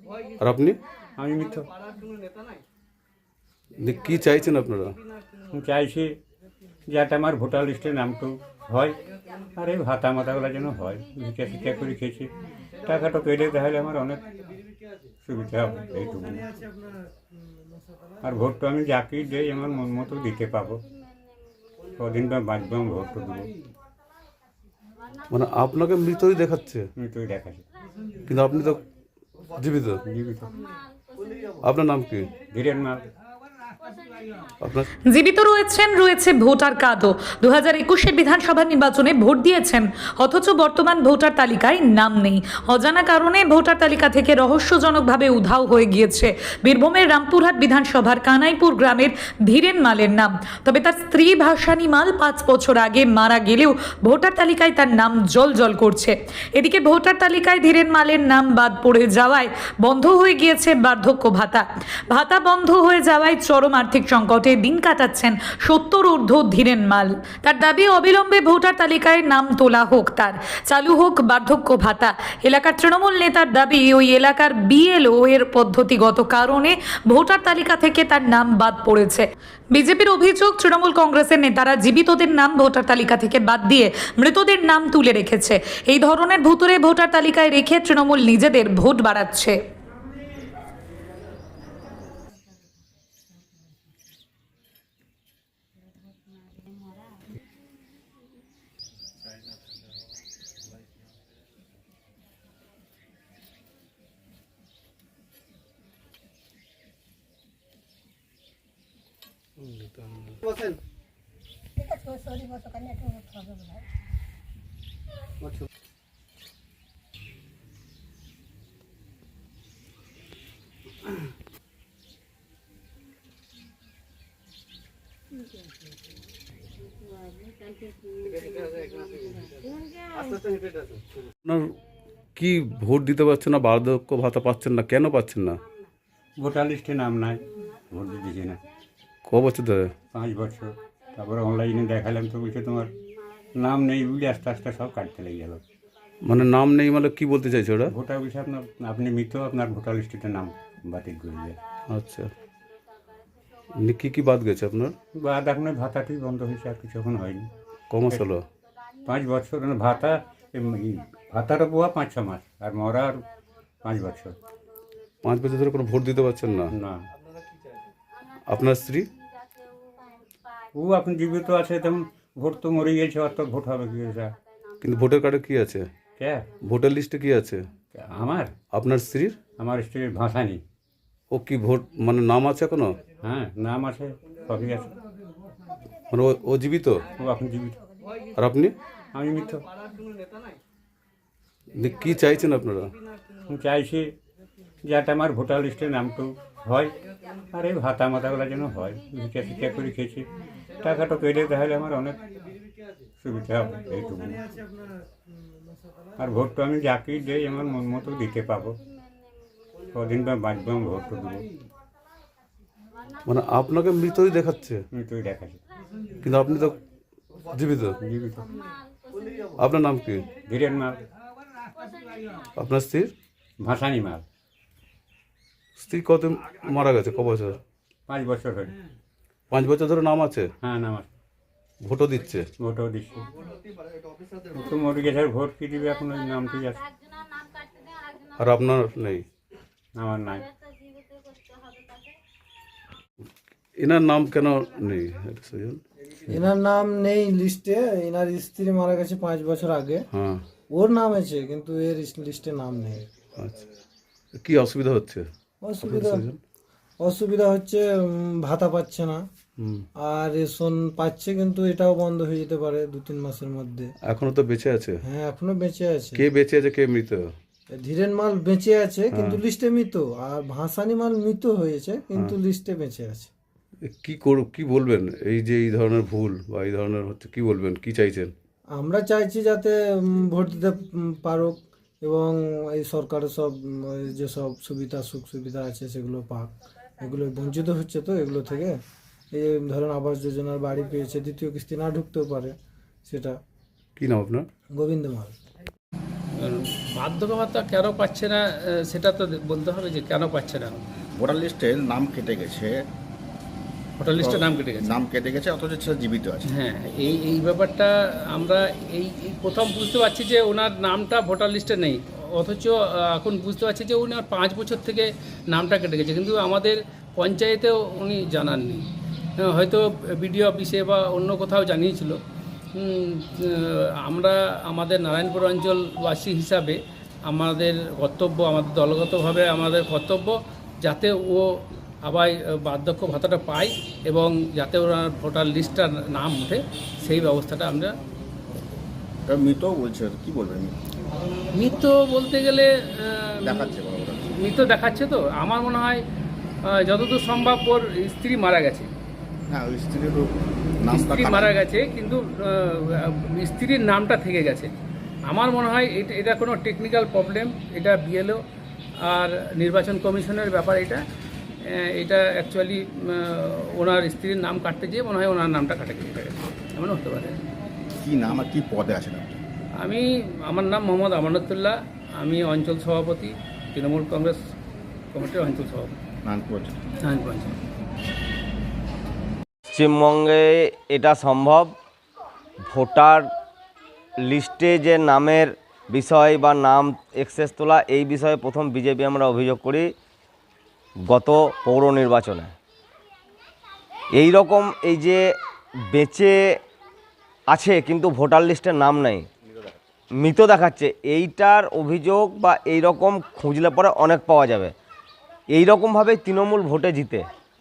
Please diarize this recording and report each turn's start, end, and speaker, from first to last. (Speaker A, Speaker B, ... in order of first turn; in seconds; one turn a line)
Speaker A: 0.4-0.8
Speaker B: 1.2-1.6
Speaker A: 3.8-5.0
Speaker B: 5.5-6.1
Speaker B: 6.9-9.0
Speaker B: 9.6-12.3
Speaker B: 12.8-14.3
Speaker B: 15.2-16.5
Speaker B: 18.2-20.8
Speaker B: 22.0-23.5
Speaker A: 25.3-26.9
Speaker B: 27.0-27.6
Speaker A: 28.3-28.8
Speaker A: 29.5-30.0
Speaker B: 30.1-30.5
Speaker A: 31.6-32.3
Speaker B: 32.5-33.0
Speaker A: 34.6-34.9
Speaker C: 35.1-89.6
Speaker A: 131.4-131.7
Speaker A: 132.4-135.6
Speaker B: 136.4-138.6
Speaker A: 139.3-139.9
Speaker B: 140.1-142.9
Speaker B: 143.5-145.6
Speaker A: 146.2-147.9
Speaker B: 147.9-151.6
Speaker A: 151.9-152.3
Speaker A: 153.8-154.9
Speaker B: 155.2-157.5
Speaker A: 157.9-158.4
Speaker B: 159.1-163.2
Speaker B: 163.8-164.4
Speaker A: 165.2-166.7
Speaker B: 166.7-167.0
Speaker A: 168.5-169.1
Speaker B: 170.7-174.3
Speaker A: 174.8-175.9
Speaker B: 176.2-176.4
Speaker A: 176.6-177.6
Speaker B: 177.9-178.5
Speaker A: 178.7-179.4
Speaker B: 179.6-180.6
Speaker A: 181.3-183.0
Speaker B: 183.2-184.9
Speaker A: 186.1-187.0
Speaker B: 187.2-187.8
Speaker A: 188.4-188.7
Speaker B: 189.1-189.6
Speaker A: 191.8-192.9
Speaker B: 193.5-194.1
Speaker B: 194.8-196.9
Speaker B: 197.5-200.3
Speaker B: 200.8-202.2
Speaker B: 203.2-204.5
Speaker B: 206.2-208.8
Speaker B: 209.9-211.5
Speaker A: 213.2-214.8
Speaker B: 214.9-215.6
Speaker A: 216.2-216.8
Speaker A: 217.4-218.0
Speaker B: 218.0-218.5
Speaker A: 219.6-220.3
Speaker B: 220.4-221.0
Speaker A: 222.5-223.1
Speaker B: 223.6-224.2
Speaker A: 225.8-227.6
Speaker B: 228.1-228.7
Speaker A: 229.5-230.5
Speaker B: 230.6-231.1
Speaker A: 231.8-232.5
Speaker B: 232.6-233.3
Speaker B: 234.5-236.8
Speaker A: 238.4-239.2
Speaker B: 240.0-240.5
Speaker A: 243.8-245.8
Speaker D: 246.3-250.0
Speaker A: 250.1-250.4
Speaker D: 250.7-253.0
Speaker A: 254.3-255.3
Speaker D: 255.6-256.3
Speaker A: 255.8-256.4
Speaker D: 257.0-259.2
Speaker A: 259.6-259.9
Speaker D: 260.0-263.9
Speaker A: 264.0-265.0
Speaker D: 265.0-266.3
Speaker A: 266.2-267.3
Speaker D: 267.7-273.3
Speaker A: 269.1-269.4
Speaker A: 273.8-278.3
Speaker D: 278.7-288.8
Speaker D: 289.3-292.5
Speaker D: 293.1-293.4
Speaker A: 294.0-294.5
Speaker D: 294.7-295.3
Speaker E: 296.4-300.8
Speaker F: 301.1-302.9
Speaker E: 304.0-304.9
Speaker F: 304.1-306.5
Speaker E: 306.5-318.8
Speaker E: 319.4-322.2
Speaker E: 322.8-337.9
Speaker F: 339.3-340.7
Speaker E: 341.6-343.6
Speaker F: 343.4-344.4
Speaker E: 344.4-346.0
Speaker E: 346.7-348.9
Speaker F: 349.5-351.5
Speaker E: 350.9-354.7
Speaker E: 355.3-358.4
Speaker E: 359.1-361.0
Speaker E: 361.7-367.4
Speaker F: 368.0-369.4
Speaker E: 369.8-374.4
Speaker E: 375.1-376.0
Speaker F: 376.2-376.8
Speaker E: 377.0-377.6
Speaker G: 379.7-381.7
Speaker G: 382.7-383.3
Speaker G: 384.2-389.9
Speaker G: 391.1-392.5
Speaker G: 394.1-396.6
Speaker G: 397.5-399.3
Speaker G: 400.2-404.7
Speaker G: 405.5-407.3